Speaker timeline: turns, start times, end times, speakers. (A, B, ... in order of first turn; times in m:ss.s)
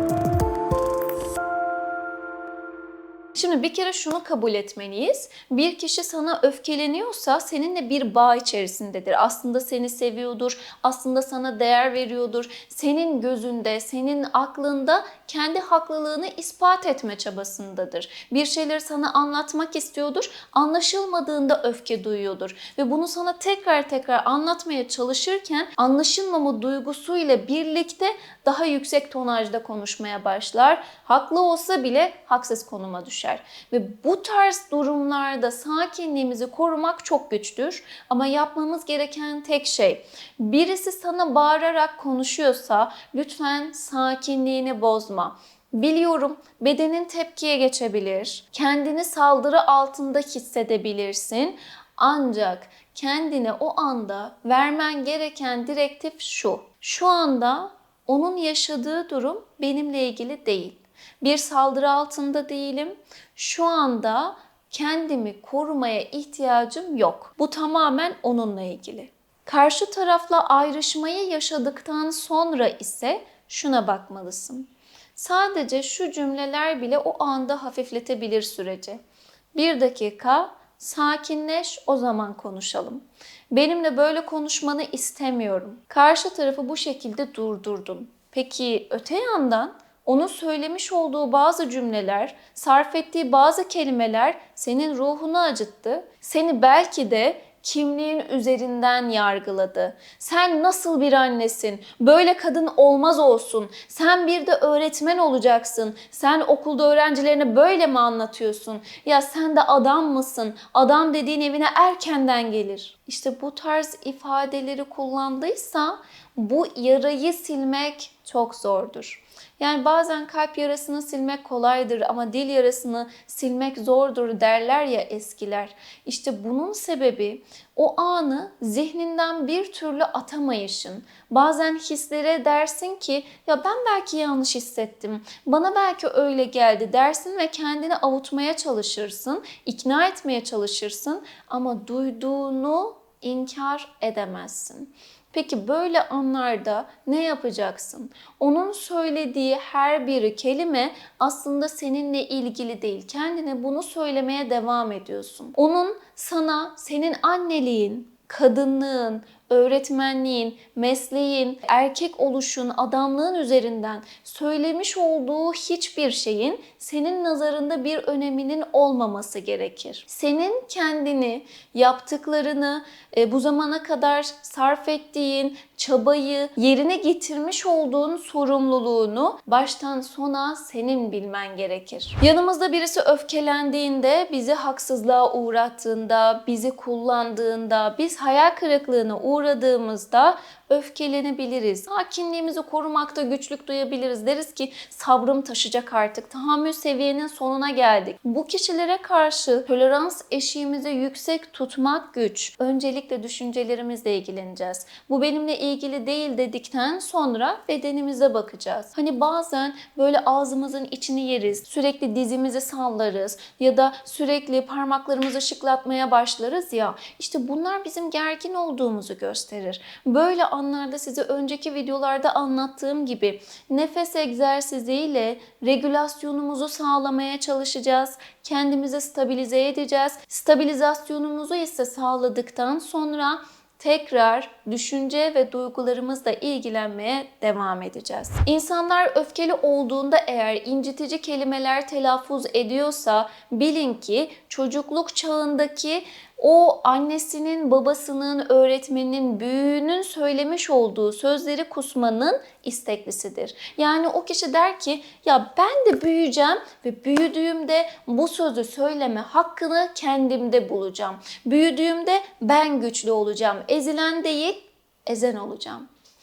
0:03.3-1:19.0 A
1:19.5-4:25.9 A